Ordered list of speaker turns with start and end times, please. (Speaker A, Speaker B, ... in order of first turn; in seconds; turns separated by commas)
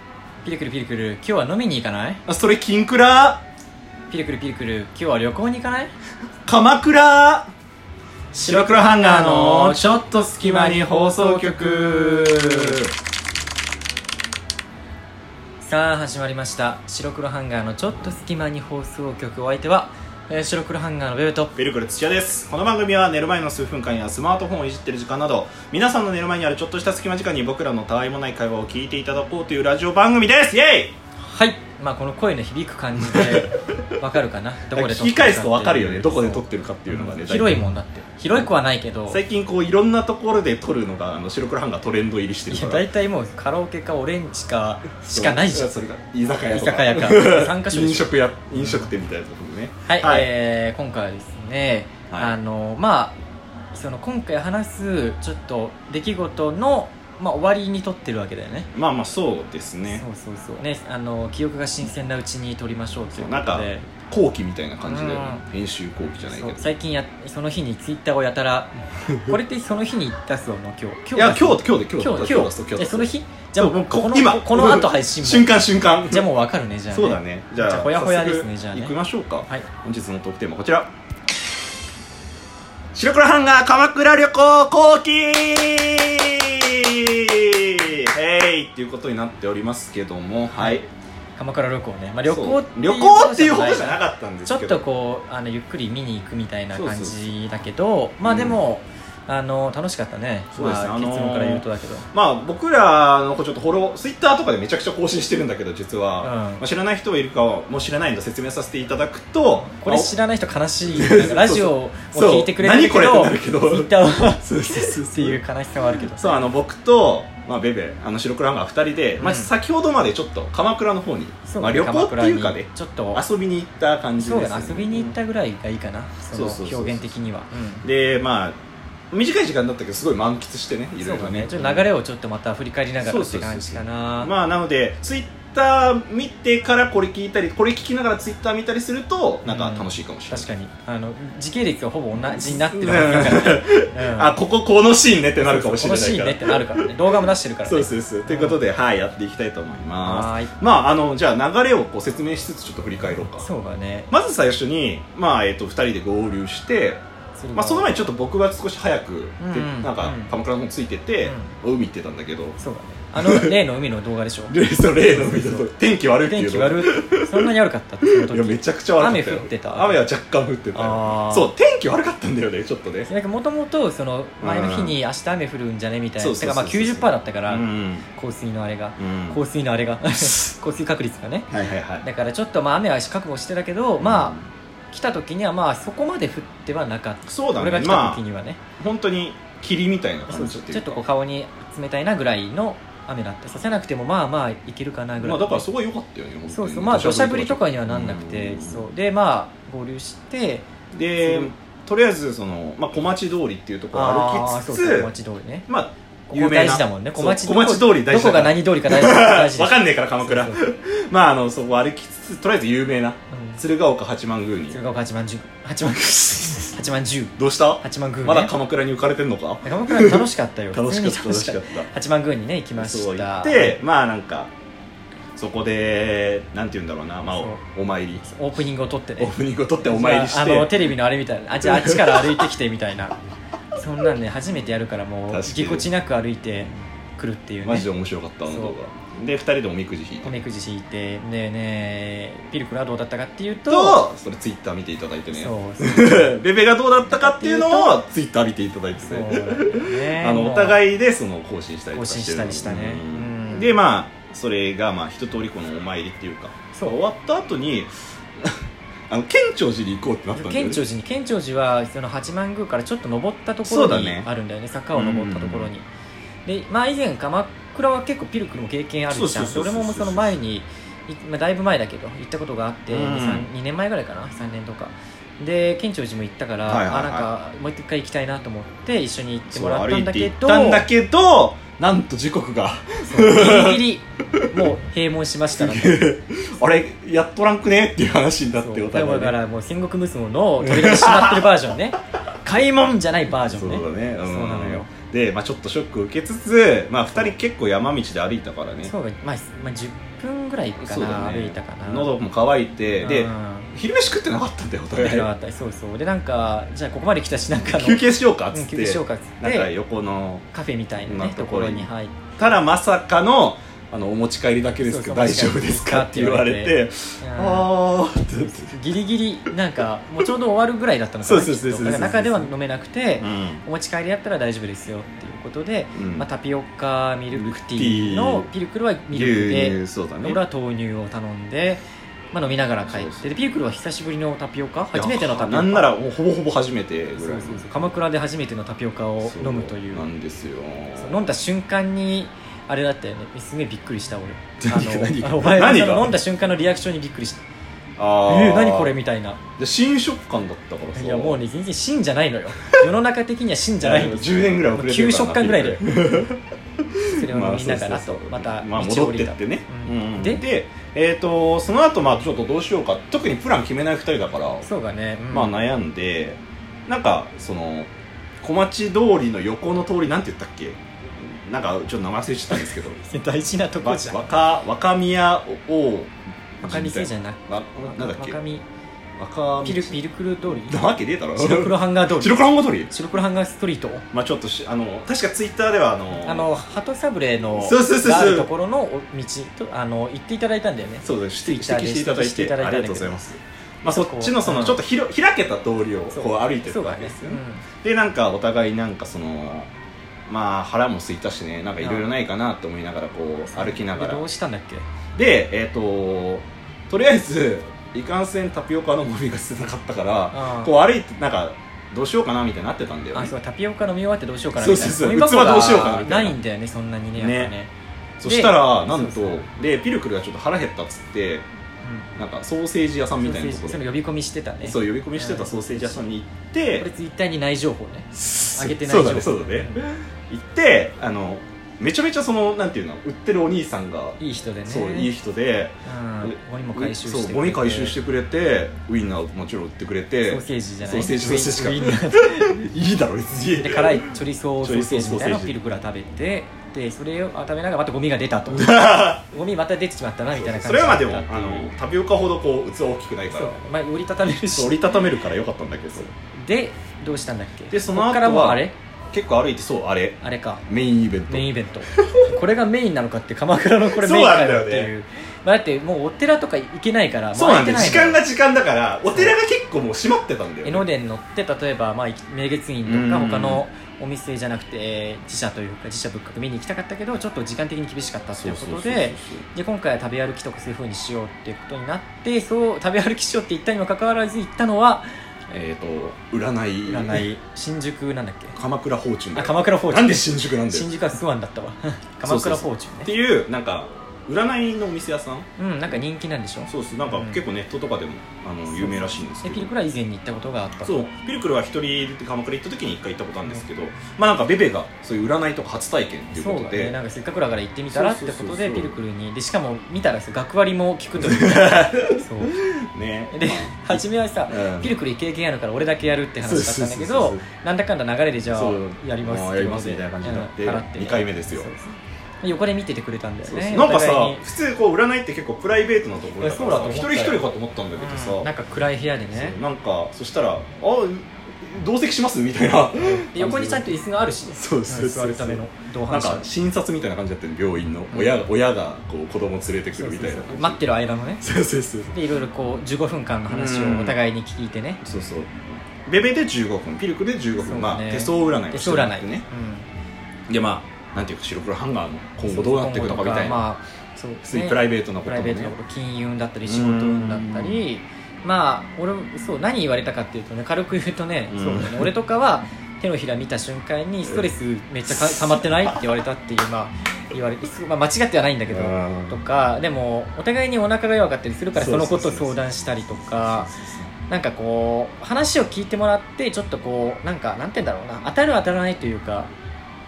Speaker A: 0.4-2.2, Speaker B: 2.3-3.4, Speaker A: 4.1-5.9, Speaker B: 6.5-7.5, Speaker B: 8.3-12.9, Speaker A: 8.4-9.9, Speaker A: 10.4-12.8, Speaker A: 15.6-21.5, Speaker B: 21.6-30.9, Speaker A: 31.2-39.2, Speaker B: 33.0-33.5, Speaker B: 34.7-37.6, Speaker B: 39.1-42.9, Speaker A: 42.5-45.8, Speaker B: 45.1-50.3, Speaker A: 46.5-48.9, Speaker A: 49.9-53.1, Speaker B: 52.1-52.4, Speaker A: 53.7-58.7, Speaker B: 58.7-60.0, Speaker A: 59.9-63.9, Speaker B: 63.1-66.7, Speaker A: 64.8-65.4, Speaker A: 66.3-75.5, Speaker B: 71.1-76.3, Speaker A: 76.1-79.0, Speaker B: 76.9-80.9, Speaker B: 82.9-90.9, Speaker A: 90.6-90.8, Speaker A: 91.4-102.1, Speaker B: 92.3-94.8, Speaker B: 96.7-97.2, Speaker B: 98.2-98.6, Speaker B: 100.5-110.1, Speaker A: 106.2-106.6, Speaker A: 109.7-116.4, Speaker B: 110.9-115.4, Speaker B: 116.0-125.2, Speaker A: 119.2-119.5, Speaker A: 121.5-123.2, Speaker A: 124.2-127.8, Speaker B: 126.3-127.2, Speaker B: 127.8-128.6, Speaker B: 129.1-131.9, Speaker A: 131.0-134.3, Speaker B: 133.0-140.5, Speaker A: 139.4-144.3, Speaker B: 142.3-153.5, Speaker A: 145.4-148.6, Speaker A: 150.0-150.5, Speaker A: 153.3-154.1, Speaker B: 154.1-157.0, Speaker A: 157.4-158.1, Speaker B: 157.5-162.6, Speaker A: 159.4-160.3, Speaker A: 161.2-161.5, Speaker A: 162.6-164.6, Speaker B: 163.2-163.6, Speaker B: 164.5-167.5, Speaker A: 165.1-165.6, Speaker A: 166.2-170.0, Speaker B: 168.1-173.1, Speaker A: 170.8-171.5, Speaker A: 173.1-181.5, Speaker B: 174.4-175.0, Speaker B: 176.2-178.1, Speaker B: 179.0-179.4, Speaker B: 181.5-182.1, Speaker A: 182.0-184.4, Speaker B: 184.0-184.4, Speaker A: 184.9-188.6, Speaker B: 187.3-188.2, Speaker B: 188.8-191.0, Speaker A: 190.3-195.6, Speaker B: 195.2-198.9, Speaker A: 196.5-200.7, Speaker B: 200.9-205.1, Speaker A: 201.2-201.5, Speaker A: 203.9-205.7, Speaker B: 205.7-214.8, Speaker A: 206.3-210.6, Speaker A: 213.3-213.6, Speaker A: 214.7-218.5, Speaker B: 215.8-216.8, Speaker B: 217.4-221.9, Speaker A: 219.6-223.8, Speaker B: 222.8-224.5, Speaker B: 225.4-228.3, Speaker A: 227.3-227.6, Speaker A: 228.2-233.2, Speaker B: 229.2-230.8, Speaker B: 231.6-232.4, Speaker A: 233.8-237.9, Speaker B: 235.3-235.9, Speaker B: 237.6-240.4, Speaker A: 238.5-238.8, Speaker A: 240.2-244.0, Speaker B: 243.7-258.6, Speaker A: 245.3-246.4, Speaker A: 247.1-248.0, Speaker A: 249.0-250.8, Speaker A: 251.9-253.8, Speaker B: 259.1-260.8, Speaker A: 260.4-265.9, Speaker B: 263.6-264.3, Speaker B: 264.9-265.7, Speaker A: 266.5-280.8, Speaker B: 269.1-270.4, Speaker B: 272.9-273.5, Speaker B: 276.7-277.3, Speaker B: 279.5-284.7, Speaker A: 283.1-286.0, Speaker B: 285.6-289.4, Speaker A: 288.6-294.9, Speaker B: 290.6-291.6, Speaker B: 293.4-298.9, Speaker A: 298.8-302.1, Speaker B: 300.8-305.3, Speaker A: 303.0-303.7, Speaker A: 304.9-309.7, Speaker B: 307.7-310.5, Speaker A: 310.5-312.2, Speaker B: 311.0-318.8, Speaker A: 314.8-317.7, Speaker A: 318.4-331.8, Speaker B: 321.2-322.5, Speaker B: 323.2-323.6, Speaker B: 325.9-326.3, Speaker B: 327.3-328.5, Speaker B: 329.1-330.4, Speaker A: 332.3-335.9, Speaker B: 332.9-333.3, Speaker B: 334.9-337.9, Speaker A: 337.2-340.1, Speaker B: 339.2-341.2, Speaker A: 341.0-347.4, Speaker B: 344.6-346.2, Speaker B: 348.0-348.9, Speaker A: 348.3-349.4, Speaker B: 349.6-351.4, Speaker A: 350.9-356.0, Speaker B: 353.8-356.4, Speaker B: 356.9-364.7, Speaker A: 357.1-360.4, Speaker A: 364.6-365.6, Speaker B: 365.3-367.9, Speaker B: 368.4-373.0, Speaker A: 372.5-374.3, Speaker B: 373.8-378.4, Speaker A: 376.6-378.6, Speaker B: 379.2-382.9, Speaker A: 379.6-380.8, Speaker A: 381.4-384.1, Speaker B: 384.1-386.5, Speaker A: 386.2-393.1, Speaker B: 387.6-388.5, Speaker B: 391.0-399.7, Speaker A: 393.9-394.8, Speaker A: 396.1-397.6, Speaker B: 400.3-404.3, Speaker A: 401.8-402.1, Speaker A: 403.5-404.9, Speaker B: 405.1-413.3, Speaker A: 410.3-410.7, Speaker A: 413.1-417.7, Speaker B: 414.6-416.4, Speaker B: 417.2-417.5, Speaker B: 418.2-421.5, Speaker A: 418.2-419.5, Speaker A: 421.8-422.1, Speaker B: 422.2-423.8, Speaker A: 423.2-426.1, Speaker B: 424.6-426.9, Speaker A: 426.8-429.8, Speaker B: 428.1-445.6, Speaker A: 434.2-435.1, Speaker A: 435.9-438.0, Speaker A: 440.2-442.6, Speaker A: 443.5-451.7, Speaker B: 448.5-449.2, Speaker B: 450.3-453.6, Speaker A: 453.3-455.0, Speaker B: 454.4-456.1, Speaker A: 455.9-458.7, Speaker B: 457.7-462.3, Speaker A: 460.2-460.6, Speaker A: 461.3-468.2, Speaker B: 463.8-464.9, Speaker B: 467.3-470.9, Speaker A: 470.6-485.1, Speaker B: 472.9-473.6, Speaker B: 478.3-479.5, Speaker B: 485.5-487.3, Speaker A: 486.9-488.6, Speaker B: 488.6-490.9, Speaker A: 489.4-493.1, Speaker B: 492.2-495.5, Speaker A: 495.6-497.4, Speaker B: 496.7-499.7, Speaker A: 498.7-500.9, Speaker B: 500.9-507.0, Speaker A: 506.3-512.6, Speaker B: 507.9-509.0, Speaker B: 511.2-514.9, Speaker A: 513.3-524.4, Speaker B: 516.4-517.4, Speaker B: 518.5-521.7, Speaker B: 523.5-528.5, Speaker A: 526.4-527.4, Speaker A: 528.0-529.6, Speaker B: 529.3-534.0, Speaker A: 533.0-536.5, Speaker B: 534.5-540.8, Speaker A: 538.1-538.4, Speaker A: 539.9-541.5, Speaker B: 541.4-542.1, Speaker A: 542.1-545.0, Speaker B: 543.5-544.2, Speaker B: 545.0-549.5, Speaker A: 547.6-549.9, Speaker B: 550.5-553.6, Speaker A: 552.5-573.7, Speaker B: 554.4-555.8, Speaker B: 556.7-557.8, Speaker B: 561.5-562.1, Speaker B: 565.1-566.0, Speaker B: 568.7-569.4, Speaker B: 571.7-574.1, Speaker A: 574.3-579.5